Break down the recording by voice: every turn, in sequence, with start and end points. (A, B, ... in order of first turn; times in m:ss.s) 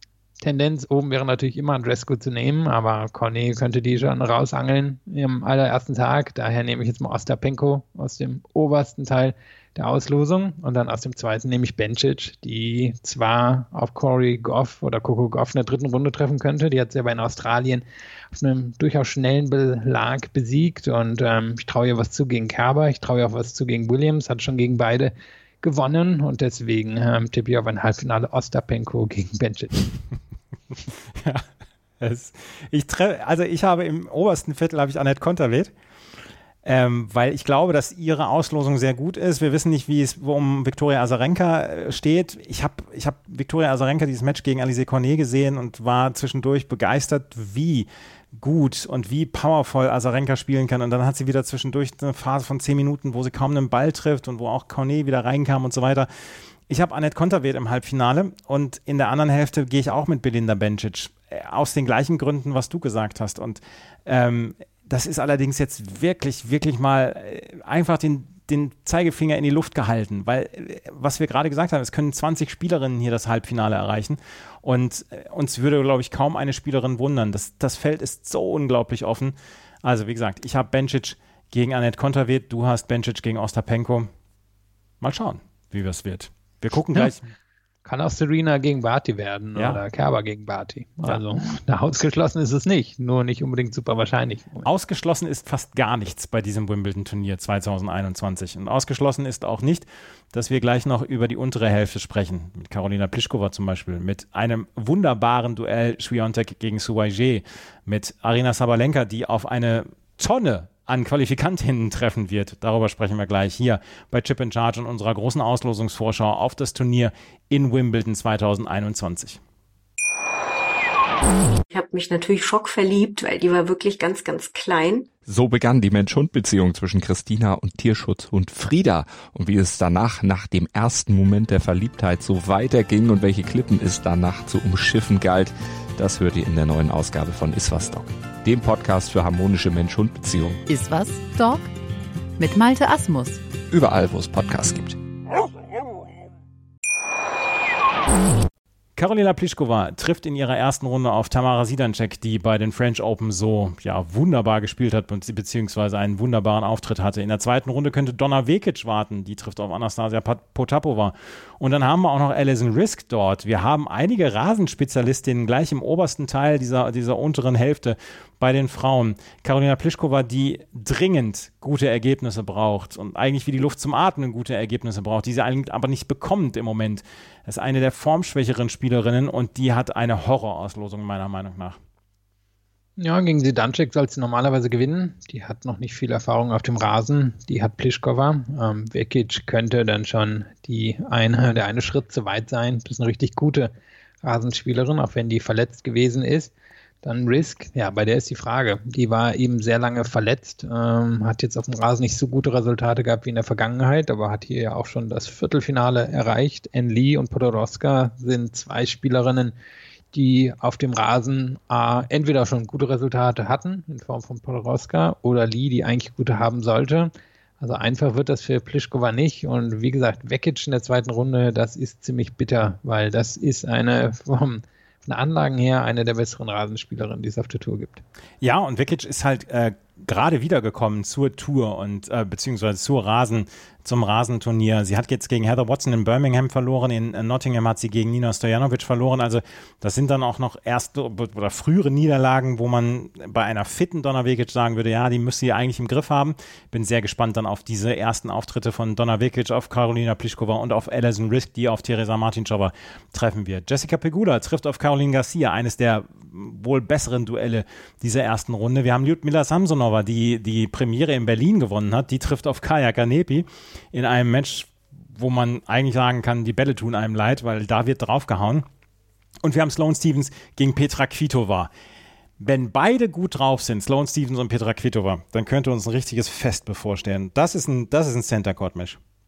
0:00.4-0:29.9 A
0:31.1-0:31.4 B
0:32.0-0:35.7 B
0:36.6-0:56.1 B
0:56.7-1:24.1 B
1:25.0-1:27.3 B
1:27.8-1:34.7 A
1:29.6-1:29.8 B
1:34.6-1:59.4 B
2:01.7-2:05.1 C
2:05.2-2:20.6 D
2:20.7-2:21.7 E
2:22.4-2:23.4 E
2:23.7-2:25.0 D
2:29.0-3:01.8 B
3:03.0-3:13.7 A
3:14.2-3:29.5 A
3:30.1-3:48.0 A
3:48.4-4:28.7 B
4:29.4-4:31.7 B
4:32.4-4:39.0 B